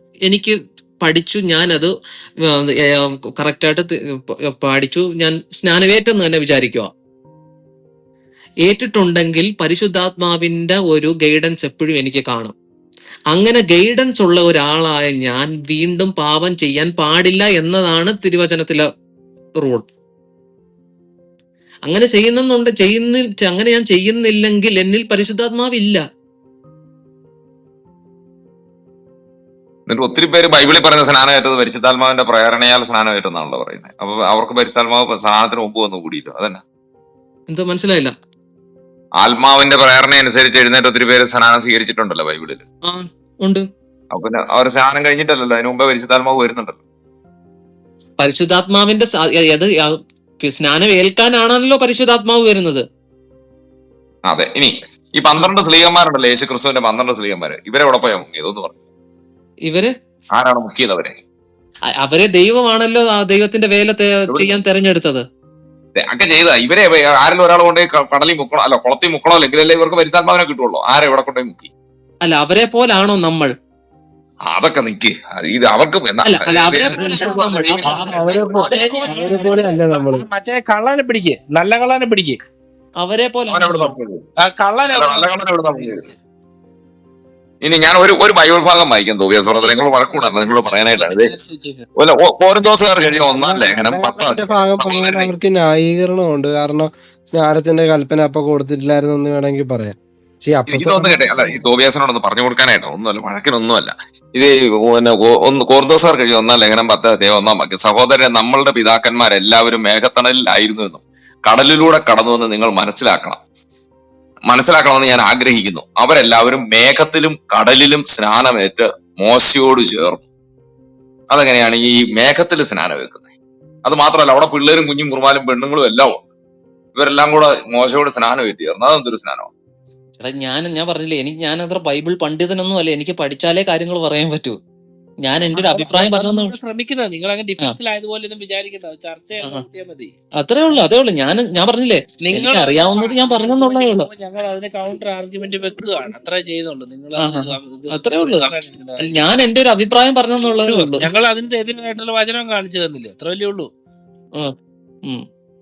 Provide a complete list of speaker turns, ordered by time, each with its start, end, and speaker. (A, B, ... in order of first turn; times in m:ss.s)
0:00.3-0:01.9 A
0:02.4-0:06.9 A
0:08.6-0:12.5 A
0:13.3-0:18.9 A
0:19.6-0:19.9 A
0:21.9-0:26.0 A
0:29.9-0:36.6 B
0:37.5-0:38.1 A
0:39.2-0:42.6 B
0:42.8-0:43.6 A
0:44.1-0:46.8 B
0:48.2-0:52.8 A
0:54.3-0:58.8 B
0:59.6-0:59.9 A
1:00.3-1:01.2 B
1:02.0-1:05.2 A
1:04.3-1:04.6 B
1:06.0-1:11.7 B
1:12.2-1:13.5 A
1:14.5-1:18.8 B
1:16.2-1:19.4 A
1:17.0-1:17.3 C
1:17.8-1:20.2 C
1:18.7-1:22.4 D
1:23.0-1:23.9 A
1:23.5-1:24.2 B
1:24.4-1:26.1 D
1:24.9-1:26.1 B
1:27.6-1:31.3 B
1:29.5-1:31.9 D
1:32.0-1:35.3 B
1:33.0-1:41.6 C
1:40.7-1:53.4 B
1:54.5-2:00.2 B
2:01.3-2:03.3 B
2:03.8-2:06.2 B
2:07.0-2:09.5 B
2:10.2-2:14.6 A
2:15.2-2:16.6 A
2:15.5-2:20.1 D
2:20.4-2:24.1 A
2:22.2-2:29.1 D
2:27.2-2:28.5 A
2:29.0-2:31.1 A
2:30.6-2:33.7 D